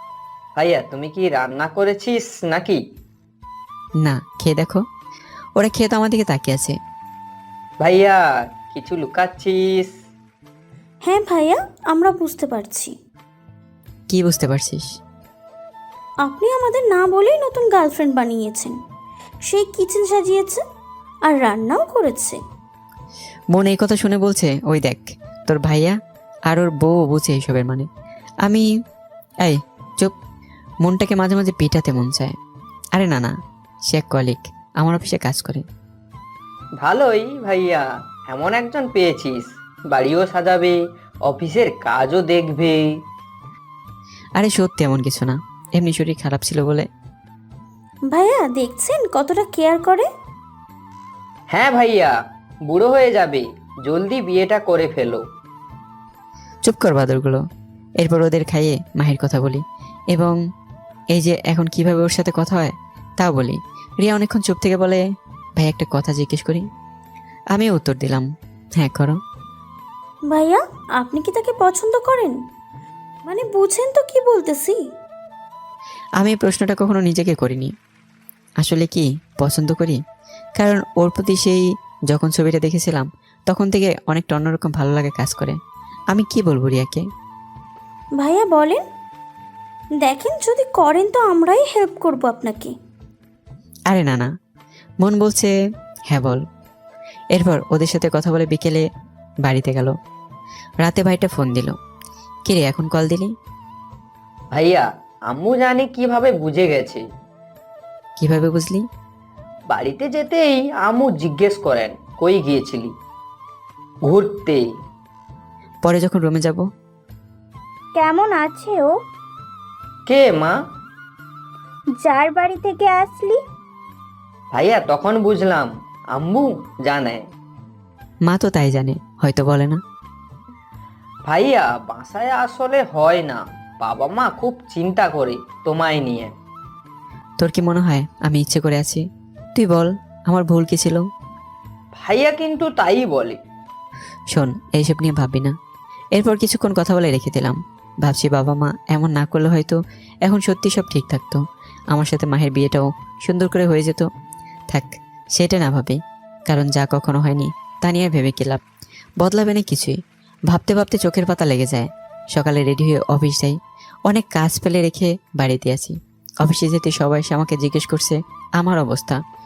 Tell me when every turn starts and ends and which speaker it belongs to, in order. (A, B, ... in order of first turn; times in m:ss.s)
0:00.6-0:02.8 A
0:04.0-0:04.8 B
0:05.6-0:06.8 B
0:07.8-0:09.9 A
0:11.0-0:12.9 C
0:14.1-0:15.0 B
0:16.2-0:18.8 C
0:19.4-0:20.6 C
0:21.2-0:22.4 C
0:23.5-0:25.9 B
0:26.5-0:27.9 B
0:29.4-0:30.1 B
0:30.8-0:32.3 B
0:32.9-0:33.3 B
0:33.9-0:35.6 B
0:36.8-0:42.8 A
0:44.4-0:46.8 B
0:48.1-0:50.1 C
0:51.5-0:52.1 A
0:52.7-0:55.2 A
0:56.6-0:57.4 B
0:58.0-0:59.6 B
1:01.1-1:05.0 B
1:05.6-1:06.6 B
1:07.5-1:08.2 B
1:08.8-1:09.2 B
1:10.3-1:12.4 C
1:13.2-1:14.8 C
1:16.2-1:17.7 B
1:18.6-1:20.0 B
1:20.6-1:25.6 B
1:26.1-1:27.0 B
1:28.2-1:28.8 C
1:30.0-1:32.7 C
1:33.9-1:34.3 B
1:35.0-1:35.5 B
1:36.1-1:36.4 B
1:37.3-1:38.8 B
1:39.4-1:39.9 B
1:40.8-1:41.7 B
1:42.5-1:43.3 B
1:44.5-1:47.0 A
1:48.2-1:48.8 B
1:49.7-1:52.9 A
1:54.0-1:54.6 A
1:55.8-1:56.6 B
1:58.0-1:58.9 D
2:00.1-2:00.5 A
2:02.0-2:03.4 D
2:04.5-2:07.2 A
2:08.3-2:09.8 B
2:11.2-2:16.3 A
2:17.4-2:19.0 B
2:19.5-2:21.0 B
2:21.9-2:23.4 A
2:24.3-2:25.5 B
2:26.1-2:31.4 B
2:31.9-2:34.1 B
2:34.7-2:38.6 B
2:39.2-2:40.0 B
2:40.5-2:49.2 B